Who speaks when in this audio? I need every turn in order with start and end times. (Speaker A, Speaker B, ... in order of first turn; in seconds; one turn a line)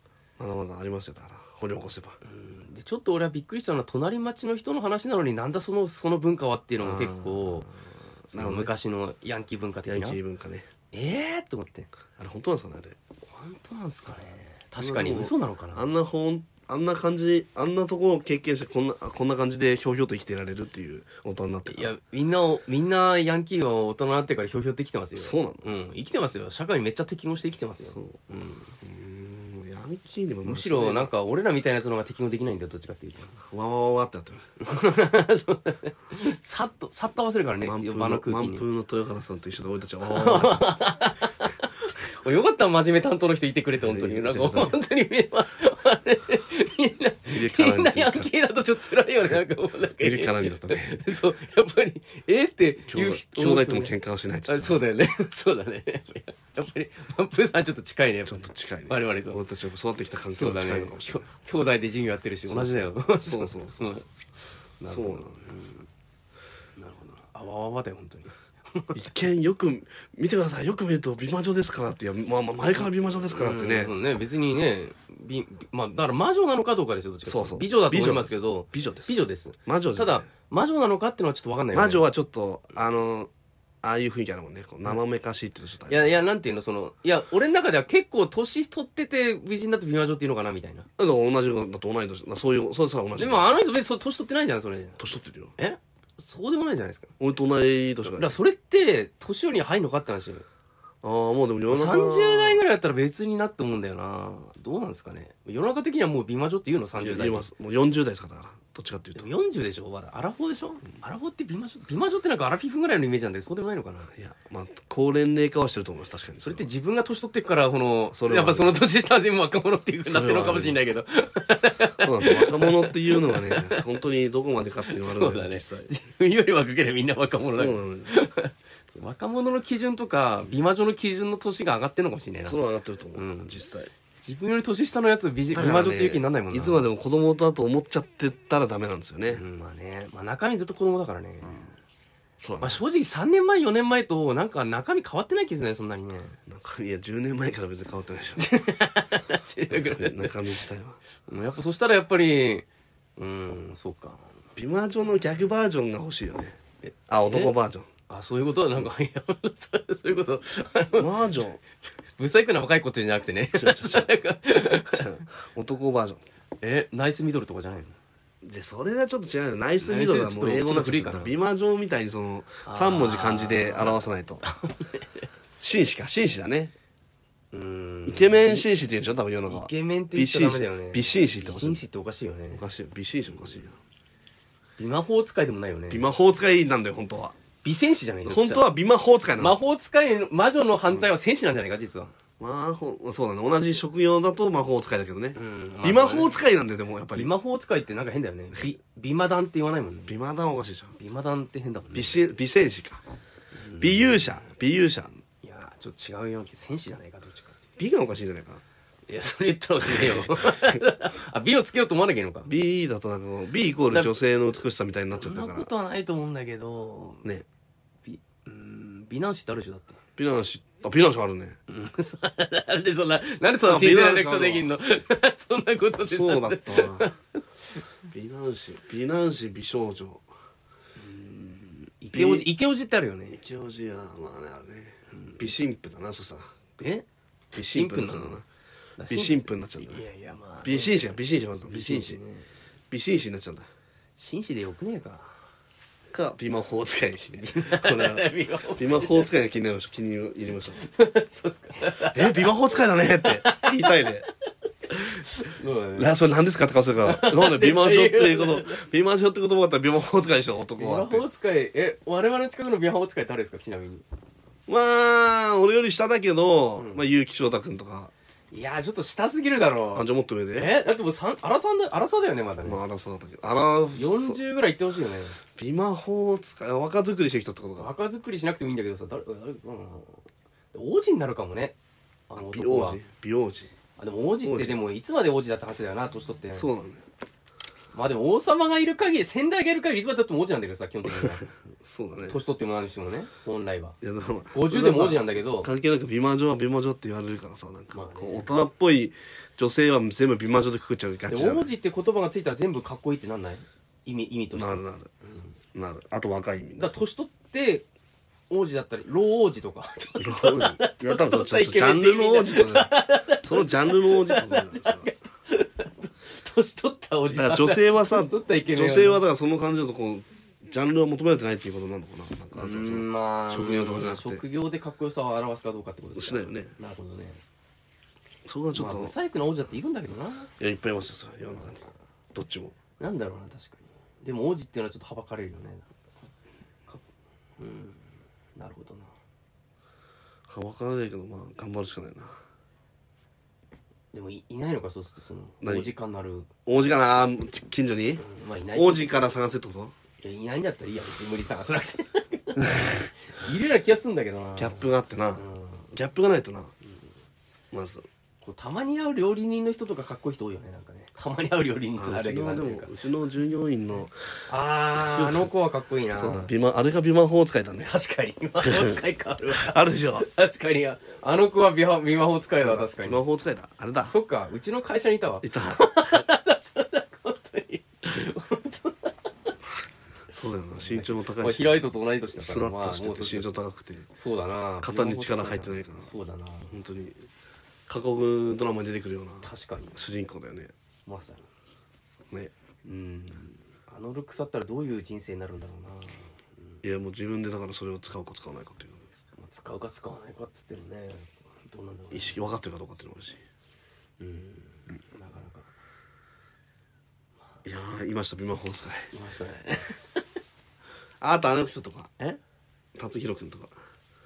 Speaker A: 0.4-2.2
Speaker B: 2.2-7.7
Speaker A: 6.8-8.7
Speaker B: 8.3-10.2
Speaker A: 9.8-10.7
Speaker B: 10.9-11.9
Speaker A: 12.2-13.0
Speaker B: 13.2-15.9
Speaker A: 14.8-21.9
Speaker B: 21.7-28.7
Speaker A: 25.2-25.7
Speaker A: 27.9-31.1
Speaker B: 30.4-33.4
Speaker A: 33.5-34.5
Speaker B: 34.6-38.6
Speaker A: 37.6-40.8
Speaker B: 40.1-54.0
Speaker A: 43.8-44.8
Speaker A: 47.3-48.3
Speaker A: 50.0-51.1
Speaker A: 52.9-54.8
Speaker B: 54.5-59.4
Speaker A: 58.3-61.3
Speaker B: 60.3-64.1
Speaker A: 62.5-64.1
Speaker B: 64.8-65.9
Speaker A: 64.9-65.5
Speaker B: 66.8-69.0
Speaker A: 68.9-73.9
Speaker B: 73.4-82.1
Speaker A: 77.3-80.3
Speaker A: 81.7-83.3
Speaker A: 83.8-86.2
Speaker B: 85.9-90.9
Speaker A: 91.0-93.5
Speaker B: 93.2-95.1
Speaker A: 95.0-95.5
Speaker B: 95.6-97.1
Speaker A: 97.2-98.4
Speaker B: 98.0-100.5
Speaker A: 101.0-102.6
Speaker B: 101.7-107.5
Speaker A: 107.0-109.3
Speaker B: 109.2-114.1
Speaker A: 114.2-116.7
Speaker B: 116.4-123.8
Speaker A: 118.1-118.8
Speaker A: 120.0-121.0
Speaker A: 122.0-125.9
Speaker B: 124.9-132.6
Speaker A: 127.4-128.1
Speaker A: 132.4-133.9
Speaker B: 133.2-133.6
Speaker B: 134.2-136.8
Speaker A: 135.5-139.4
Speaker B: 139.3-141.7
Speaker A: 142.4-142.8
Speaker B: 142.6-146.4
Speaker A: 146.5-148.5
Speaker B: 148.4-150.4
Speaker A: 149.7-151.0
Speaker B: 151.3-152.7
Speaker B: 153.2-154.2
Speaker A: 154.6-157.9
Speaker B: 156.8-157.6
Speaker B: 158.1-161.2
Speaker A: 161.0-161.6
Speaker B: 162.2-165.1
Speaker A: 163.5-164.1
Speaker A: 164.9-166.2
Speaker B: 166.6-168.0
Speaker A: 168.4-174.4
Speaker B: 169.8-171.4
Speaker B: 172.7-175.3
Speaker A: 175.6-176.7
Speaker B: 177.5-178.7
Speaker A: 178.1-181.8
Speaker B: 179.5-182.6
Speaker A: 182.5-183.8
Speaker B: 184.8-186.1
Speaker A: 185.9-187.4
Speaker B: 187.6-188.7
Speaker A: 188.2-189.6
Speaker B: 189.4-192.1
Speaker A: 192.4-197.3
Speaker B: 195.3-196.3
Speaker B: 197.1-200.1
Speaker A: 200.1-200.9
Speaker B: 201.0-202.2
Speaker A: 201.9-203.0
Speaker B: 203.6-204.5
Speaker A: 203.8-205.2
Speaker B: 205.4-207.6
Speaker A: 207.8-208.6
Speaker B: 209.1-212.5
Speaker A: 209.8-210.8
Speaker A: 212.5-215.7
Speaker B: 213.9-214.2
Speaker B: 215.2-217.3
Speaker B: 218.1-220.0
Speaker A: 220.2-221.6
Speaker B: 221.7-227.2
Speaker A: 223.6-224.7
Speaker A: 226.0-227.1
Speaker A: 228.1-230.2
Speaker B: 231.0-233.4
Speaker A: 232.1-232.5
Speaker A: 233.3-236.5
Speaker B: 235.1-235.5
Speaker B: 236.8-238.4
Speaker A: 237.5-238.4
Speaker B: 239.0-241.1
Speaker A: 239.1-240.0
Speaker A: 240.6-242.2
Speaker B: 241.7-242.5
Speaker A: 242.9-243.7
Speaker B: 244.2-245.3
Speaker A: 246.1-250.8
Speaker B: 247.4-249.3
Speaker B: 250.8-252.5
Speaker A: 252.1-254.3
Speaker B: 253.2-254.1
Speaker B: 254.9-256.1
Speaker A: 256.0-261.2
Speaker B: 257.0-258.8
Speaker B: 260.8-264.0
Speaker A: 264.7-268.1
Speaker B: 266.8-267.0
Speaker B: 268.5-272.8
Speaker A: 269.9-270.7
Speaker A: 272.6-274.4
Speaker B: 273.9-275.4
Speaker A: 275.6-277.9
Speaker B: 277.8-280.2
Speaker B: 280.7-281.8
Speaker B: 282.3-283.0
Speaker A: 282.4-283.7
Speaker B: 284.0-286.7
Speaker A: 284.4-284.8
Speaker A: 286.6-287.0
Speaker B: 287.9-291.5
Speaker A: 291.8-292.4
Speaker B: 292.2-294.0
Speaker A: 294.0-301.7
Speaker B: 294.5-295.7
Speaker B: 297.9-298.5
Speaker B: 301.3-304.8
Speaker A: 304.5-305.1
Speaker A: 305.7-306.9
Speaker B: 306.8-307.9
Speaker B: 308.5-319.2
Speaker A: 310.2-315.1
Speaker A: 317.3-324.4
Speaker B: 322.5-327.4
Speaker A: 326.2-326.7
Speaker A: 328.5-329.1
Speaker B: 328.7-330.5
Speaker A: 330.6-332.8
Speaker B: 333.0-335.9
Speaker B: 337.6-338.0
Speaker B: 338.6-339.1
Speaker A: 340.5-342.4
Speaker B: 344.1-346.5
Speaker A: 345.6-345.9
Speaker A: 346.7-349.9
Speaker B: 348.2-349.2
Speaker B: 350.2-354.9
Speaker A: 354.6-356.7
Speaker B: 355.4-355.9
Speaker A: 357.7-358.1
Speaker B: 358.4-362.9
Speaker A: 362.0-364.1
Speaker B: 364.5-366.5
Speaker A: 364.9-365.5
Speaker A: 366.1-367.9
Speaker B: 367.8-373.2
Speaker A: 368.6-370.3
Speaker A: 372.6-374.1
Speaker B: 374.1-379.3
Speaker A: 375.4-375.9
Speaker A: 380.3-381.8
Speaker B: 380.8-383.6
Speaker A: 382.4-384.1
Speaker B: 384.1-386.7
Speaker A: 384.8-386.1
Speaker A: 386.7-387.2
Speaker A: 387.9-390.7
Speaker B: 389.4-390.0
Speaker B: 391.1-391.4
Speaker B: 392.9-396.8
Speaker A: 396.8-399.1
Speaker B: 399.4-402.4
Speaker A: 402.1-403.4
Speaker B: 404.2-405.7
Speaker A: 407.6-409.1
Speaker B: 409.1-410.2
Speaker A: 411.2-412.1
Speaker A: 413.0-413.7